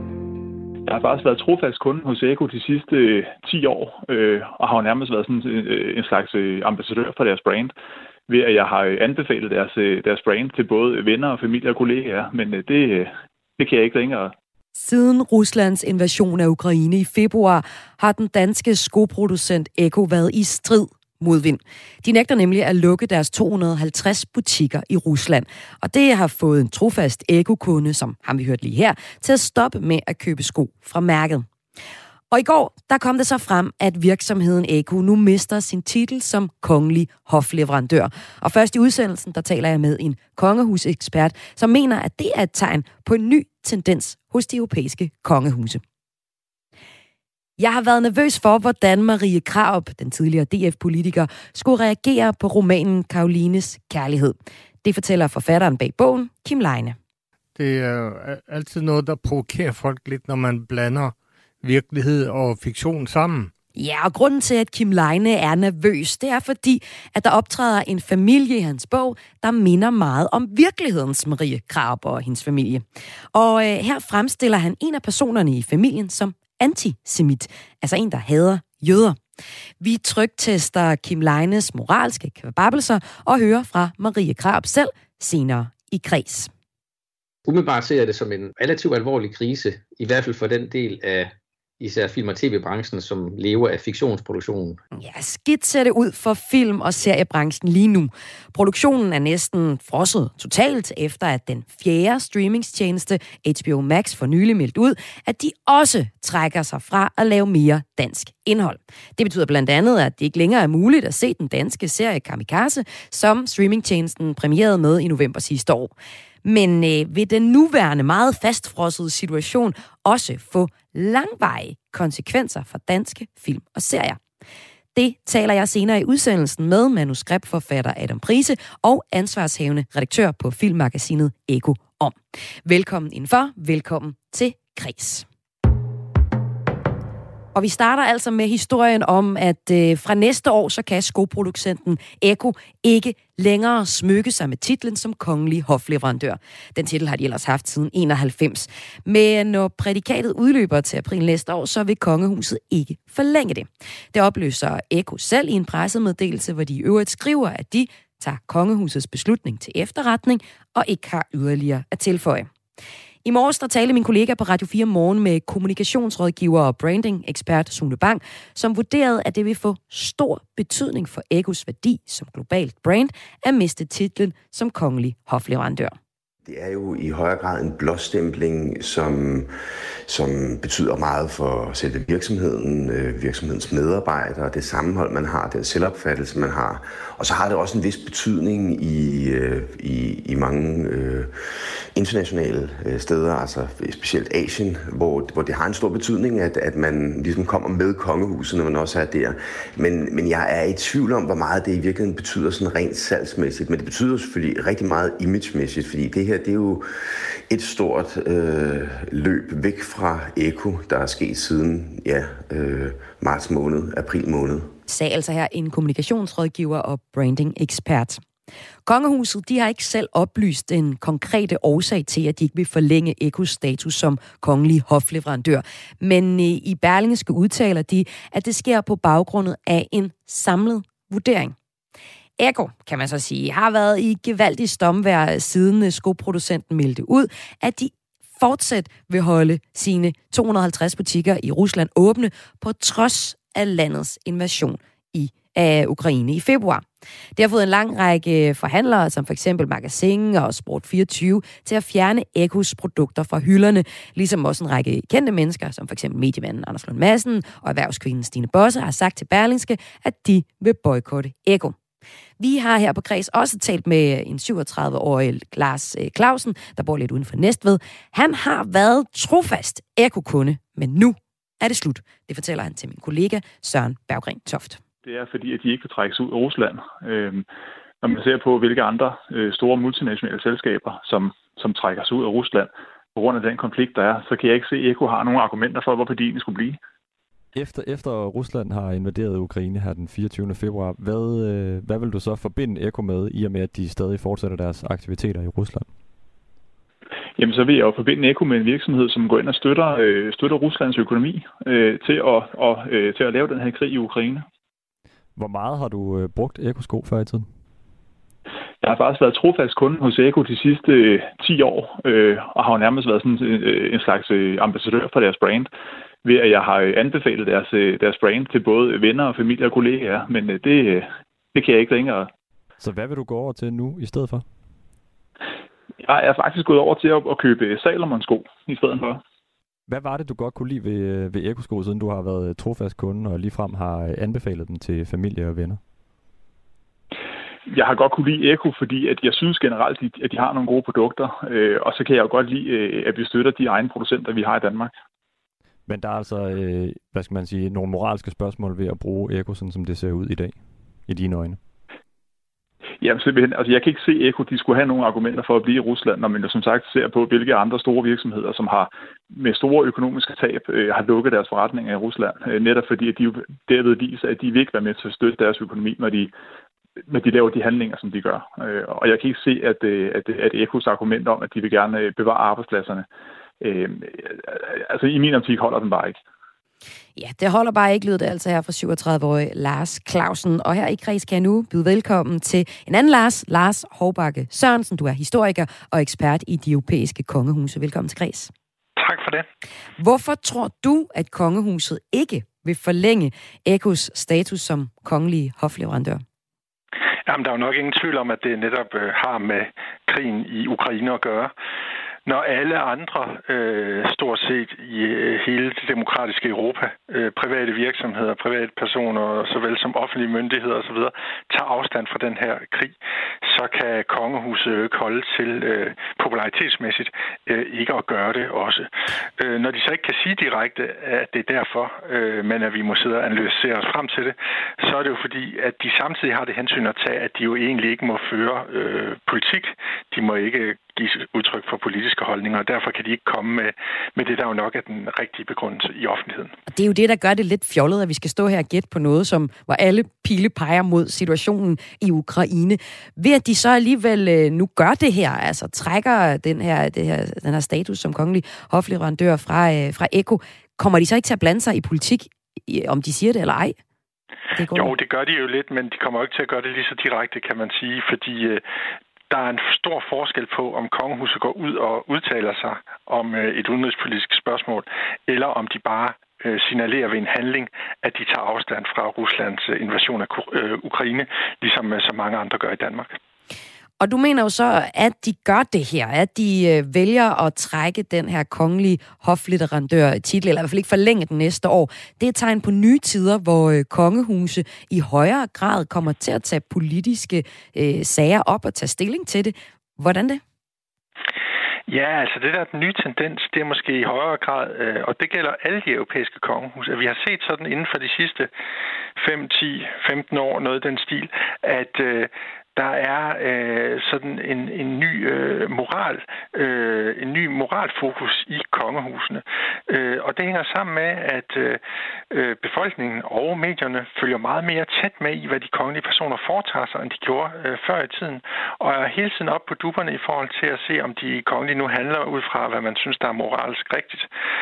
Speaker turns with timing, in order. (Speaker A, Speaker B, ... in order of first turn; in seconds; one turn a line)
Speaker A: 0.8-7.7
Speaker A: 8.3-14.3
Speaker B: 14.8-31.4
Speaker B: 32.3-45.8
Speaker B: 47.6-57.0
Speaker C: 57.5-63.5
Speaker B: 63.8-79.2
Speaker B: 79.8-86.5
Speaker D: 87.5-94.8
Speaker B: 94.9-115.9
Speaker B: 116.4-124.2
Speaker B: 124.9-135.2
Speaker B: 137.5-162.5
Speaker B: 163.2-175.9
Speaker E: 176.4-179.5
Speaker E: 180.1-214.7
Speaker B: 214.9-218.2
Speaker B: 218.8-231.5
Speaker B: 232.4-246.8
Speaker B: 247.3-261.8
Speaker B: 262.4-274.8
Speaker A: 275.0-277.4
Speaker A: 278.0-286.8
Speaker F: 287.5-296.0
Speaker A: 297.4-304.4
Speaker F: 305.4-307.5
Speaker A: 308.8-315.7
Speaker A: 316.2-322.3
Speaker F: 322.8-324.6
Speaker A: 326.0-329.2
Speaker F: 329.9-335.8
Speaker A: 337.7-344.9
Speaker F: 345.9-351.6
Speaker A: 353.0-366.3
Speaker A: 367.1-373.1
Speaker A: 373.6-376.2
Speaker B: 377.1-388.5
Speaker G: 389.0-389.4
Speaker B: 390.0-396.2
Speaker G: 397.3-401.5
Speaker G: 402.2-436.5
Speaker B: 436.7-453.8
Speaker B: 454.5-454.9
Speaker G: 454.7-458.6
Speaker G: 459.3-473.2
Speaker B: 474.0-490.4
Speaker G: 491.9-498.5
Speaker G: 499.2-524.3